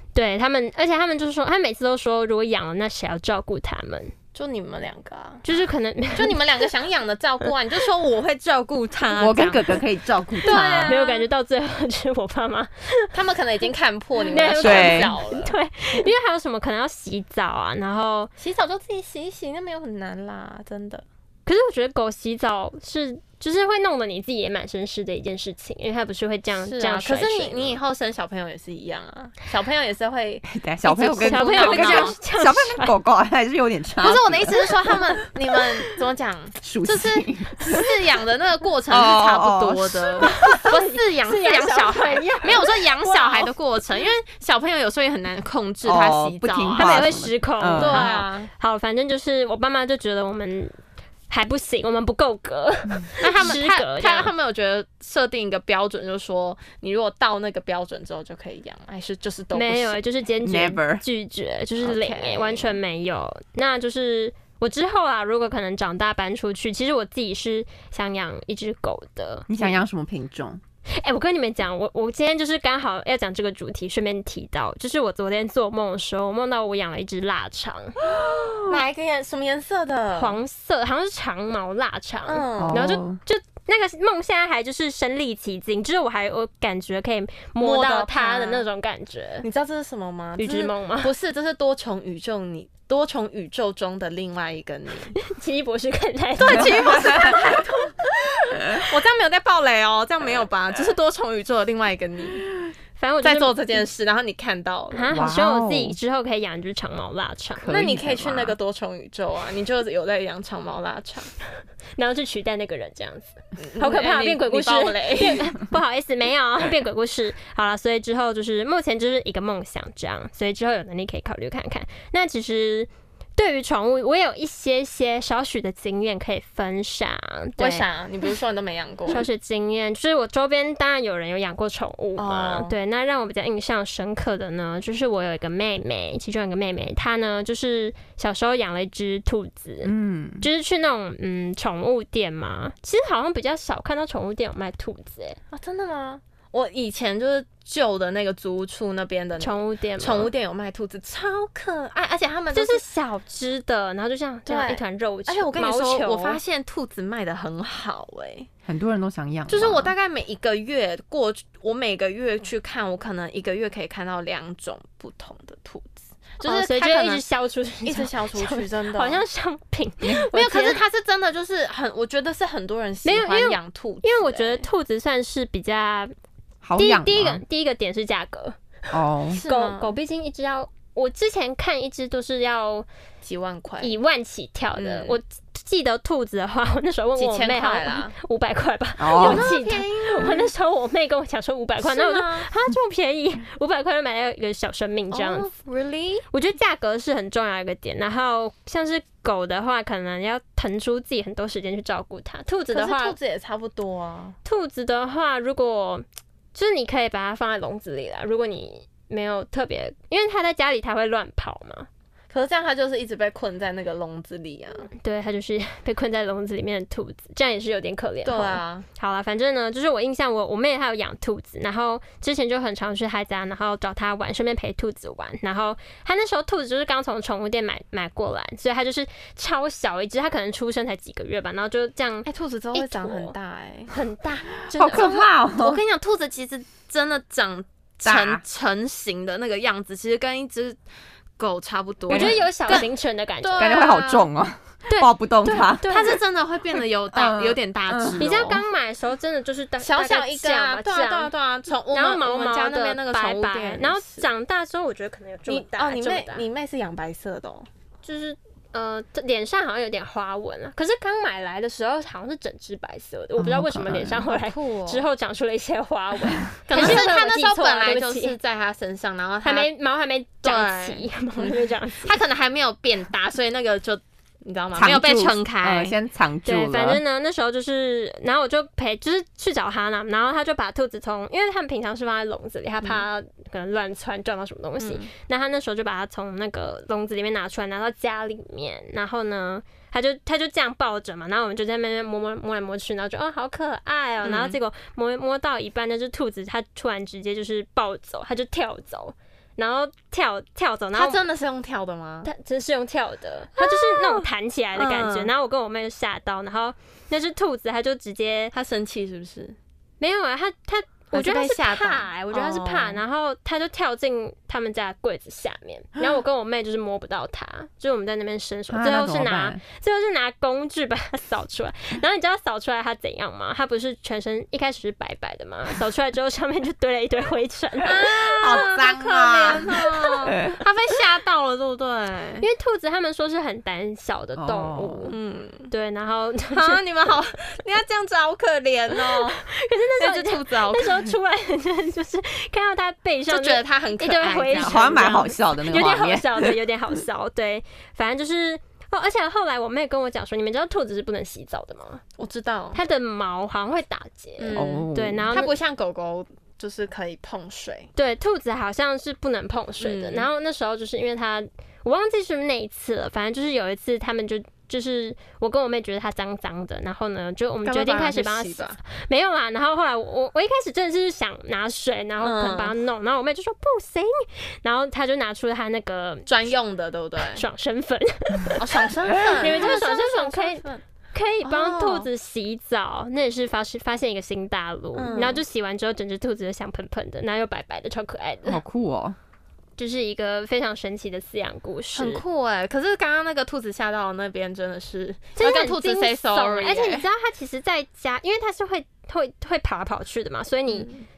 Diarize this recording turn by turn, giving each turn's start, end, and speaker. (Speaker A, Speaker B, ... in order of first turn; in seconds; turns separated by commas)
Speaker A: 0.1-4.1, Speaker B: 4.3-5.4, Speaker A: 5.5-6.7, Speaker B: 6.2-9.8, Speaker C: 9.2-11.0, Speaker B: 10.4-11.3, Speaker A: 10.5-13.1, Speaker B: 13.1-16.1, Speaker A: 14.3-18.3, Speaker C: 14.6-15.1, Speaker B: 18.4-21.0, Speaker A: 21.5-27.8, Speaker B: 26.6-30.5, Speaker C: 30.5-34.7, Speaker A: 30.9-32.9, Speaker B: 31.1-32.2, Speaker B: 34.0-47.0, Speaker C: 36.6-37.9, Speaker C: 38.9-40.5, Speaker A: 40.2-43.5, Speaker C: 45.8-48.2, Speaker A: 46.8-50.8, Speaker B: 47.7-48.5, Speaker A: 51.3-54.3, Speaker B: 53.2-60.0, Speaker A: 59.5-69.8, Speaker C: 60.4-61.0, Speaker B: 61.8-62.8, Speaker C: 69.5-70.6, Speaker A: 71.0-78.0, Speaker B: 78.1-80.4, Speaker C: 78.2-78.8, Speaker A: 80.2-89.5, Speaker B: 82.3-82.9, Speaker C: 82.6-83.2, Speaker B: 87.6-88.7, Speaker B: 89.4-95.2, Speaker A: 90.4-91.1, Speaker A: 95.2-97.9, Speaker B: 96.4-102.7, Speaker C: 96.5-97.6, Speaker A: 103.0-103.8, Speaker B: 103.2-105.1, Speaker A: 104.9-107.8, Speaker C: 105.1-106.0, Speaker C: 107.6-108.6, Speaker B: 107.7-111.3, Speaker A: 112.0-127.8, Speaker B: 113.6-115.6, Speaker B: 127.6-129.2, Speaker A: 129.1-145.4, Speaker B: 132.2-132.7, Speaker C: 139.8-140.5, Speaker B: 145.5-152.8, Speaker A: 149.4-150.3, Speaker A: 152.5-156.4, Speaker B: 154.5-158.5, Speaker C: 158.7-159.9, Speaker B: 159.5-167.2, Speaker A: 166.4-170.8, Speaker B: 167.8-169.2, Speaker B: 170.3-174.7, Speaker A: 173.1-176.1, Speaker C: 176.6-177.4, Speaker A: 176.8-178.6, Speaker C: 178.9-179.4, Speaker B: 179.3-180.0, Speaker A: 179.4-182.9, Speaker B: 183.2-183.9, Speaker A: 183.8-195.5, Speaker B: 184.8-185.2, Speaker B: 187.2-188.2, Speaker C: 189.0-189.5, Speaker B: 189.2-190.5, Speaker B: 191.8-192.5, Speaker B: 195.1-196.3, Speaker A: 196.3-203.2, Speaker B: 202.7-204.4, Speaker A: 204.4-211.9, Speaker B: 212.3-214.9, Speaker A: 214.9-233.3, Speaker B: 218.2-218.9, Speaker B: 232.3-233.9, Speaker A: 233.9-235.1, Speaker C: 234.7-235.8, Speaker B: 234.8-240.8, Speaker C: 238.1-238.4, Speaker B: 241.4-242.9, Speaker C: 242.1-242.8, Speaker A: 242.1-243.9, Speaker B: 243.4-244.3, Speaker C: 243.6-245.9, Speaker A: 244.9-246.2, Speaker B: 245.8-248.6, Speaker C: 247.1-248.5, Speaker A: 248.2-251.3, Speaker B: 249.8-254.3, Speaker A: 251.9-256.4, Speaker B: 255.5-257.7, Speaker A: 258.0-268.4, Speaker C: 263.4-264.3, Speaker B: 264.3-265.1, Speaker B: 266.7-269.7, Speaker C: 266.7-267.1, Speaker A: 269.4-272.2, Speaker B: 270.4-275.9, Speaker C: 274.8-277.0, Speaker A: 276.4-301.2, Speaker B: 284.8-285.1, Speaker B: 294.2-294.6, Speaker B: 300.9-302.3, Speaker A: 302.2-308.5, Speaker B: 303.6-305.3, Speaker B: 308.5-309.6, Speaker A: 310.0-328.6, Speaker B: 311.1-313.0, Speaker C: 318.7-319.6, Speaker B: 327.8-332.4, Speaker C: 328.2-330.6, Speaker A: 332.4-335.1, Speaker C: 334.4-335.1, Speaker B: 335.1-335.7, Speaker A: 335.7-336.8, Speaker B: 336.5-339.4, Speaker A: 339.1-352.0, Speaker B: 340.0-341.1, Speaker B: 343.3-345.3, Speaker C: 344.6-346.5, Speaker B: 352.2-352.8, Speaker A: 352.7-355.5, Speaker B: 354.4-357.9, Speaker C: 354.6-355.4, Speaker A: 358.0-376.3, Speaker B: 359.8-360.3, Speaker B: 367.6-368.8, Speaker B: 372.2-372.8, Speaker B: 376.3-377.4, Speaker A: 377.3-388.6, Speaker B: 378.6-380.8, Speaker B: 381.4-382.1, Speaker B: 384.9-385.4, Speaker C: 388.5-389.2, Speaker A: 389.8-392.2, Speaker B: 391.9-397.1, Speaker A: 395.4-400.9, Speaker B: 400.7-401.1